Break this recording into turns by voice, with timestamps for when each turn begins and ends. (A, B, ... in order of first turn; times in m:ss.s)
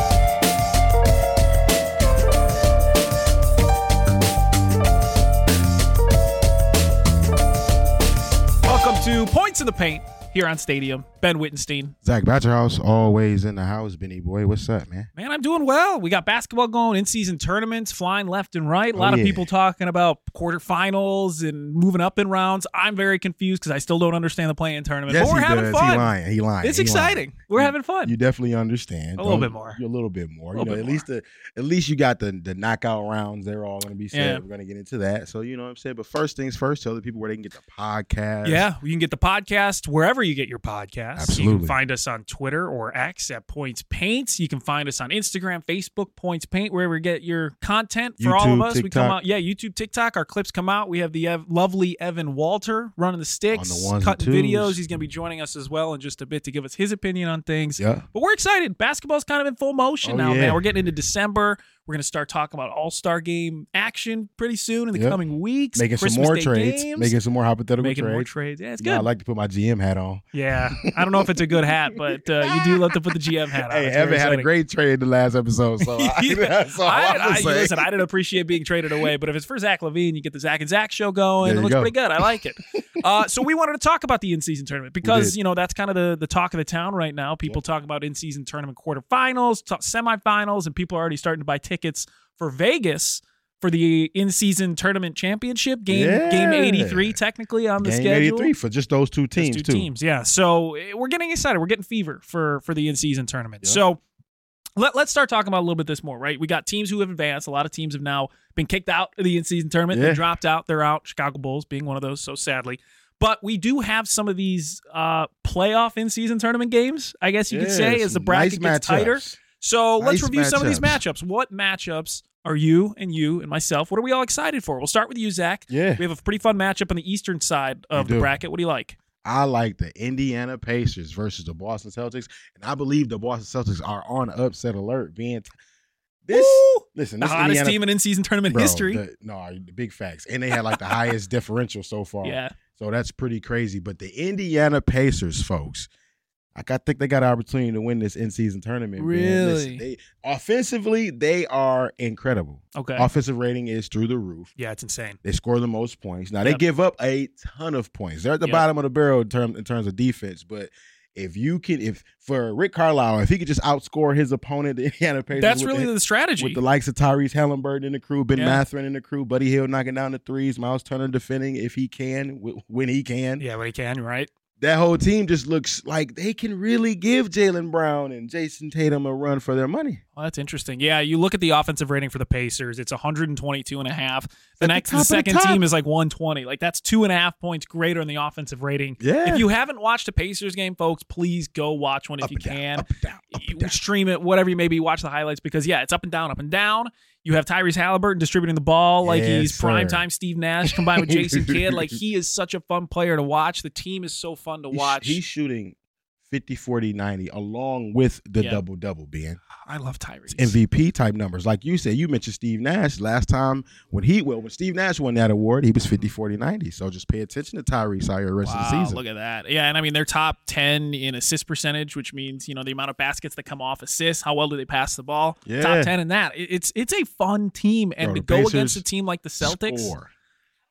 0:08.6-0:12.0 A
0:12.0-0:15.1 B
0:15.2-0:28.1 A
0:19.0-0:19.5 B
0:25.1-0:38.7 B
0:29.2-0:29.8 A
0:30.5-0:31.0 A
0:34.1-0:34.4 A
0:38.4-1:07.1 A
0:41.2-0:41.8 B
0:48.2-0:49.2 B
0:53.5-0:54.8 B
0:57.8-0:58.0 B
1:00.0-1:00.6 B
1:04.9-1:05.2 B
1:05.8-1:08.3 B
1:07.8-1:09.1 A
1:08.8-1:17.9 B
1:10.3-1:14.5 A
1:15.8-1:38.5 A
1:21.4-1:22.0 B
1:25.0-1:25.4 B
1:35.9-1:37.2 B
1:37.8-1:39.9 B
1:39.4-1:44.0 A
1:44.8-2:09.0 A
1:49.9-1:50.2 B
1:57.5-1:59.4 B
2:00.0-2:01.0 B
2:05.7-2:06.0 B
2:07.9-2:08.3 B
2:09.2-2:15.5 B
2:16.2-2:17.8 B
2:16.3-2:19.0 A
2:18.5-2:25.9 B
2:20.7-2:21.1 A
2:22.2-2:22.5 A
2:26.5-2:34.5 B
2:29.0-2:29.8 A
2:32.8-2:33.1 A
2:34.6-2:35.2 A
2:35.2-2:53.4 B
2:45.4-2:46.6 A
2:48.4-2:48.6 A
2:53.4-2:54.3 A
2:54.6-3:00.0 B
3:00.2-3:25.2 A
3:04.6-3:05.6 B
3:09.0-3:09.5 B
3:12.2-3:13.8 B
3:19.0-3:20.0 B
3:20.6-3:22.0 B
3:24.7-3:25.8 B
3:26.3-3:29.4 B
3:28.4-3:28.6 A
3:29.6-3:30.6 A
3:30.3-3:39.0 B
3:38.4-3:49.9 A
3:45.5-3:45.9 B
3:48.0-3:48.8 B
3:49.4-3:50.1 B